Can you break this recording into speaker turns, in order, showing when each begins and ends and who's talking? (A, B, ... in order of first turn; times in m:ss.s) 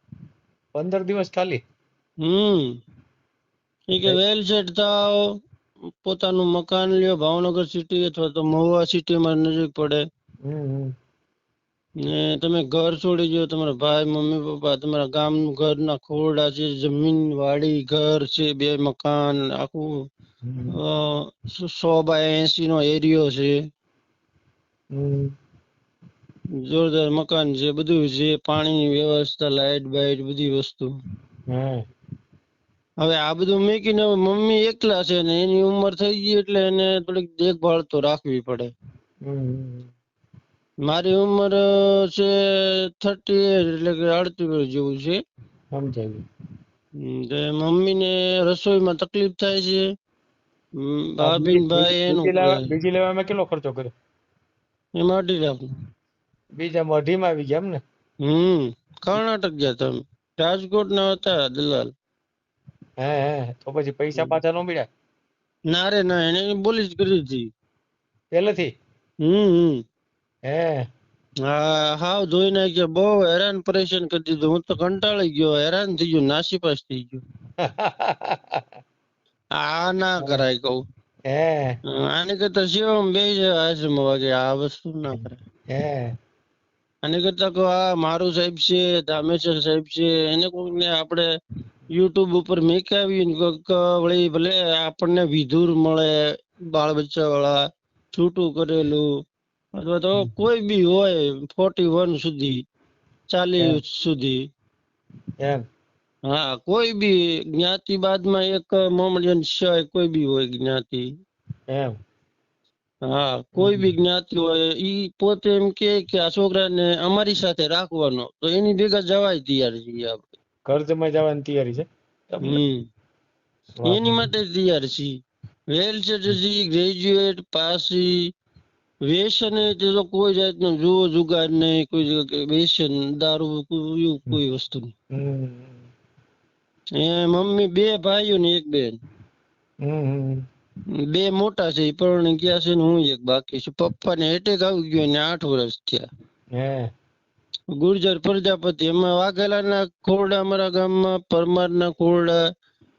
0:00.8-0:01.6 A
0:02.2-0:02.7 B
0:03.9-0:05.3 B
0:06.0-0:10.0 B
0:10.5-0:10.9 A
0:12.0-0:19.9 B
0:20.5-0:20.8 A
0:20.8-0:23.6 B
0:24.9-0:25.3 A
0:26.6-0:30.9 B
0:31.5-0:31.8 A
0:33.0-0:38.7 B
0:39.2-0:39.9 A
0:40.8-0:45.2 B
0:45.7-0:46.2 A
0:47.0-0:49.8 B
0:50.8-0:52.6 B
0:51.2-0:53.9 A
0:55.0-0:55.7 B
0:56.6-0:57.8 A
0:58.2-1:01.9 B
1:03.0-1:04.9 A
1:05.7-1:07.5 B
1:08.3-1:08.7 A
1:09.2-1:09.8 B
1:10.5-1:10.8 A
1:11.4-1:17.2 B
1:17.6-1:18.6 A
1:19.6-1:20.8 B
1:21.3-1:21.8 A
1:21.9-1:25.4 B
1:25.7-1:26.1 A
1:27.0-1:31.2 B
1:31.9-1:36.2 B
1:36.7-1:37.6 B
1:38.2-1:39.1 B
1:39.8-1:42.6 B
1:43.3-1:44.4 B
1:46.3-1:51.1 B
1:53.1-2:00.2 B
1:53.6-1:53.9 A
2:00.7-2:02.6 A
2:02.4-2:02.8 B
2:03.8-2:04.3 A
2:03.9-2:05.2 B
2:05.7-2:08.2 B
2:09.1-2:14.9 B
2:15.1-2:15.8 A
2:17.0-2:19.0 B
2:19.8-2:20.4 A
2:21.1-2:26.1 B
2:26.6-2:26.9 A
2:27.8-2:32.4 B